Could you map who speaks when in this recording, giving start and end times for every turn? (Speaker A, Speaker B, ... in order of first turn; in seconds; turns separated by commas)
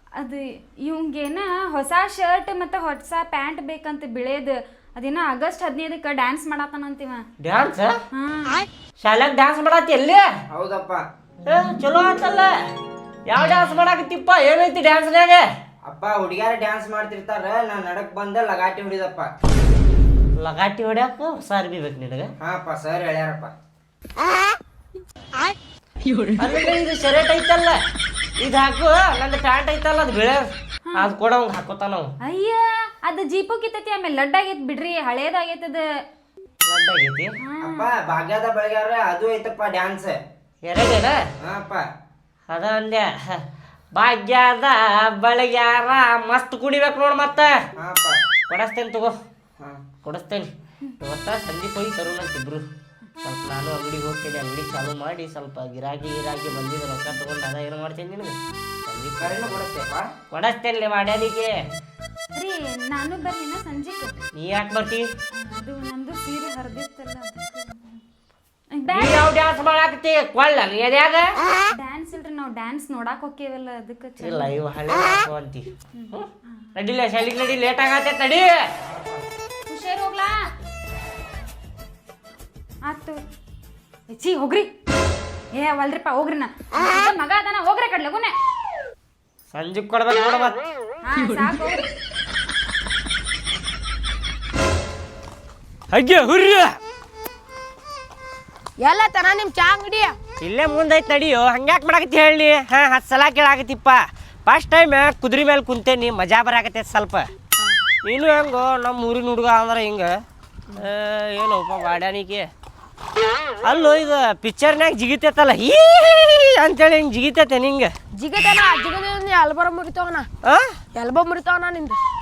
Speaker A: 0.2-7.2, Speaker B: 7.4-8.0, Speaker A: 8.1-8.7, Speaker B: 9.0-10.3, Speaker C: 10.5-11.0, Speaker B: 11.4-12.6, Speaker B: 13.3-15.5, Speaker C: 15.8-19.3, Speaker B: 20.4-22.3, Speaker C: 22.4-23.5, Speaker B: 26.4-27.8, Speaker B: 28.4-30.4, Speaker A: 30.9-31.1, Speaker B: 30.9-32.1, Speaker A: 32.2-35.9, Speaker B: 36.7-37.3, Speaker A: 37.4-37.9, Speaker C: 37.6-40.2, Speaker B: 40.6-41.2, Speaker C: 41.4-41.8, Speaker B: 42.5-43.4, Speaker B: 43.9-47.5, Speaker C: 47.8-48.2, Speaker B: 48.5-49.1, Speaker B: 50.0-52.6, Speaker B: 53.2-59.6, Speaker C: 59.2-60.1, Speaker B: 60.3-61.5, Speaker A: 62.4-64.1, Speaker B: 64.3-65.1, Speaker A: 65.4-68.0, Speaker A: 68.7-69.3, Speaker B: 68.9-71.3, Speaker A: 71.8-74.5, Speaker B: 74.2-78.6, Speaker A: 76.0-76.7, Speaker A: 79.7-80.3, Speaker A: 82.8-83.2, Speaker A: 84.1-84.7, Speaker A: 85.5-88.3, Speaker B: 89.5-90.7, Speaker A: 91.0-91.9, Speaker B: 95.9-96.8, Speaker D: 98.8-100.2, Speaker B: 100.4-107.3, Speaker B: 108.0-110.2, Speaker B: 110.8-112.5, Speaker B: 113.6-117.9, Speaker D: 118.2-120.3, Speaker B: 120.4-120.8, Speaker D: 120.9-122.0